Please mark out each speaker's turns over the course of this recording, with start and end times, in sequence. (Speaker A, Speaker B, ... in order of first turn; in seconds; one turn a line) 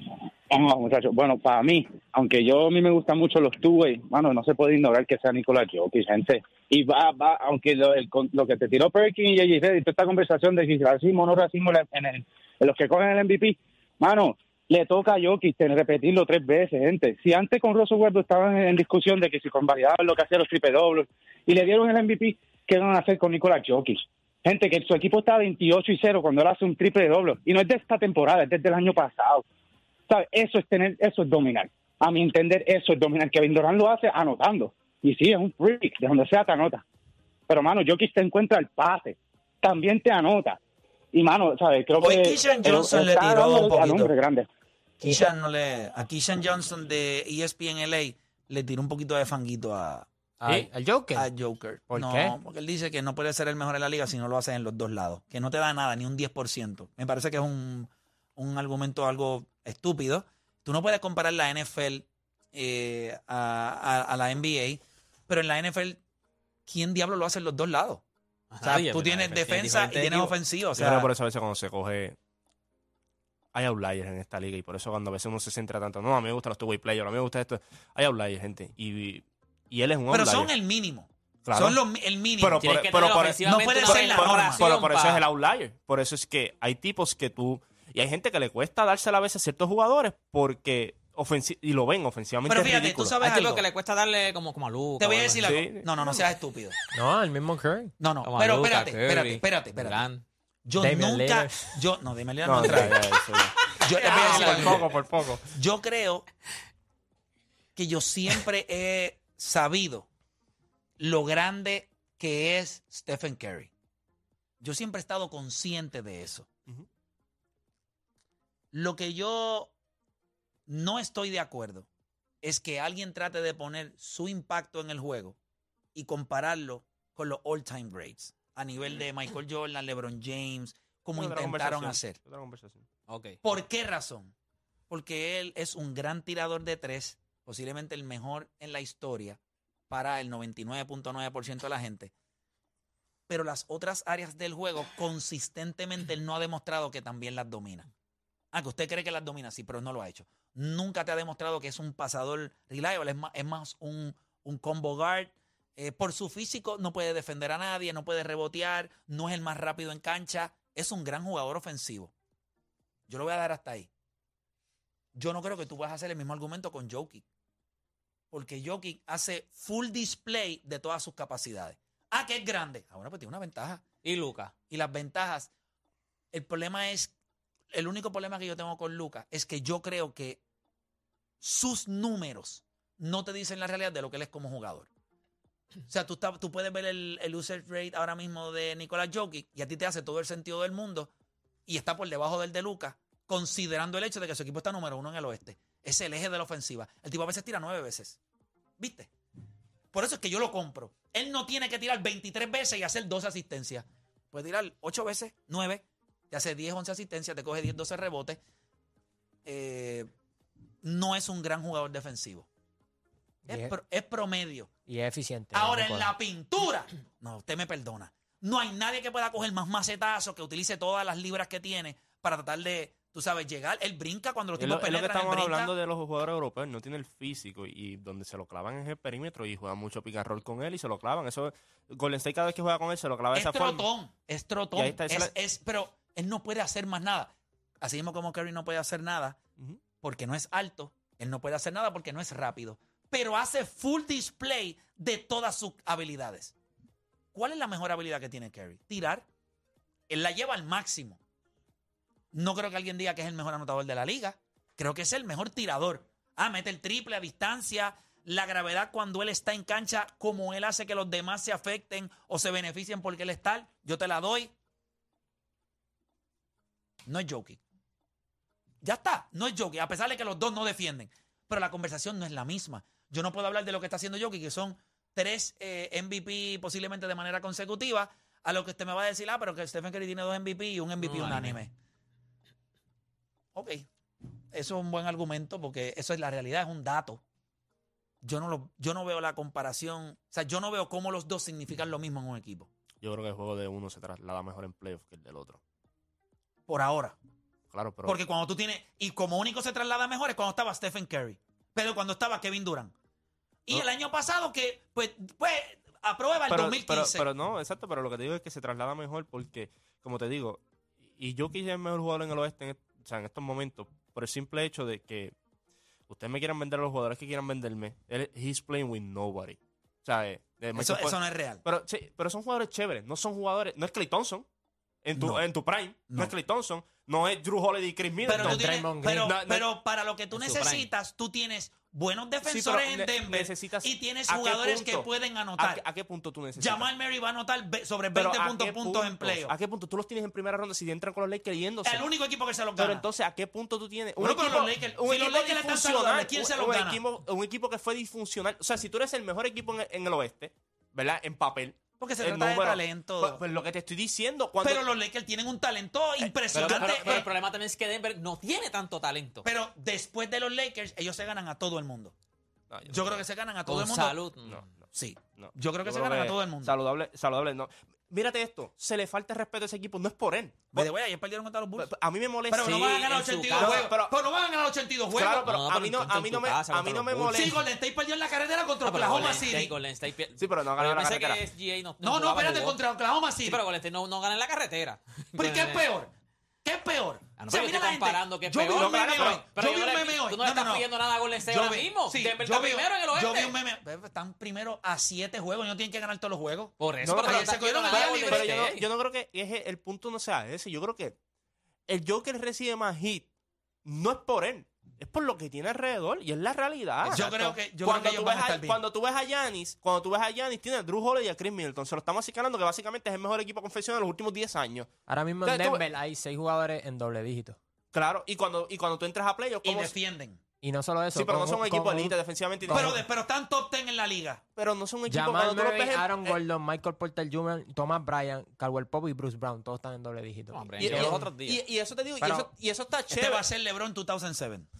Speaker A: 0.5-29.4
Speaker A: 30.1-36.8
Speaker A: 37.5-40.6
Speaker A: 41.1-44.5
Speaker B: 42.0-44.1
Speaker B: 45.0-50.1
Speaker C: 50.4-51.3
Speaker B: 51.1-66.0
Speaker C: 51.9-52.4
Speaker B: 66.7-68.0
Speaker D: 68.5-70.3
Speaker B: 68.6-71.1
Speaker E: 70.7-72.2
Speaker E: 73.5-80.5
Speaker B: 80.1-82.7
Speaker E: 81.4-81.8
Speaker E: 82.4-93.2
Speaker D: 82.6-85.2
Speaker B: 83.4-84.6
Speaker B: 92.5-93.6
Speaker D: 93.2-95.6
Speaker B: 95.0-96.7
Speaker E: 95.4-95.9
Speaker C: 96.9-97.9
Speaker B: 98.0-100.0
Speaker D: 98.2-100.2
Speaker B: 100.6-103.0
Speaker C: 100.8-101.8
Speaker E: 102.4-105.5
Speaker B: 103.8-104.9
Speaker D: 104.0-104.9
Speaker B: 105.5-106.3
Speaker B: 107.8-110.1
Speaker B: 111.0-113.7
Speaker B: 114.6-116.5
Speaker B: 118.7-119.7
Speaker B: 120.7-121.9
Speaker B: 122.4-125.4
Speaker B: 125.9-132.2
Speaker E: 131.2-132.8
Speaker D: 133.1-133.4
Speaker B: 133.4-134.3
Speaker B: 134.9-139.4
Speaker B: 139.9-142.1
Speaker B: 143.3-147.9
Speaker B: 148.5-162.1
Speaker B: 163.1-163.9
Speaker B: 165.1-167.2
Speaker B: 168.3-173.8
Speaker D: 174.0-174.5
Speaker B: 174.7-175.5
Speaker B: 176.3-177.1
Speaker B: 177.7-180.4
Speaker B: 181.4-184.9
Speaker B: 185.9-191.1
Speaker B: 191.7-198.2
Speaker B: 198.8-199.1
Speaker B: 199.9-208.4
Speaker B: 209.4-210.1
Speaker B: 210.8-212.5
Speaker C: 213.4-213.7
Speaker B: 213.5-214.7
Speaker C: 214.9-216.1
Speaker B: 215.5-225.7
Speaker E: 224.6-233.8
Speaker B: 233.3-239.4
Speaker E: 234.8-235.3
Speaker B: 240.0-246.5
Speaker B: 247.3-249.2
Speaker B: 250.1-251.2
Speaker B: 252.3-264.5
Speaker B: 267.1-267.6
Speaker B: 268.8-281.7
Speaker D: 281.0-281.6
Speaker B: 283.5-283.9
Speaker B: 284.5-287.2
Speaker B: 288.2-292.7
Speaker E: 293.0-295.6
Speaker B: 296.7-297.2
Speaker E: 297.7-298.2
Speaker B: 298.0-302.9
Speaker B: 303.7-307.3
Speaker E: 306.5-310.6
Speaker E: 311.1-315.3
Speaker E: 316.1-324.4
Speaker B: 320.7-321.6
Speaker E: 325.0-328.7
Speaker B: 325.1-325.4
Speaker B: 326.1-326.3
Speaker B: 328.2-335.8
Speaker C: 328.3-329.3
Speaker E: 329.2-329.7
Speaker D: 330.3-330.9
Speaker E: 332.4-336.9
Speaker B: 336.6-339.5
Speaker E: 338.1-342.0
Speaker B: 341.8-343.1
Speaker E: 342.8-354.8
Speaker B: 344.2-347.0
Speaker B: 352.0-353.4
Speaker B: 354.6-357.3
Speaker E: 356.2-357.2
Speaker D: 356.5-359.4
Speaker B: 359.4-362.1
Speaker E: 362.7-363.2
Speaker B: 362.9-364.2
Speaker D: 363.7-364.6
Speaker E: 364.4-364.8
Speaker B: 364.9-366.7
Speaker E: 365.3-370.9
Speaker B: 370.7-371.9
Speaker E: 371.8-374.1
Speaker B: 372.5-375.5
Speaker D: 373.1-373.9
Speaker E: 375.1-377.6
Speaker D: 375.4-377.5
Speaker B: 377.3-379.7
Speaker D: 378.8-382.8
Speaker E: 380.4-381.4
Speaker B: 382.0-383.6
Speaker D: 383.4-385.9
Speaker B: 385.4-386.1
Speaker B: 386.6-390.9
Speaker D: 387.4-393.6
Speaker E: 388.7-389.5
Speaker B: 391.4-398.5
Speaker D: 396.8-398.9
Speaker E: 397.0-401.1
Speaker E: 401.9-403.3
Speaker E: 403.8-414.9
Speaker B: 407.0-408.8
Speaker C: 415.1-417.6
Speaker E: 415.4-415.8
Speaker E: 417.9-419.9
Speaker B: 419.6-420.4
Speaker C: 420.6-423.0
Speaker E: 421.1-423.0
Speaker B: 422.7-424.4
Speaker E: 424.6-426.4
Speaker C: 425.1-431.3
Speaker D: 430.5-431.6
Speaker E: 430.8-433.4
Speaker C: 432.2-432.5
Speaker B: 433.1-434.7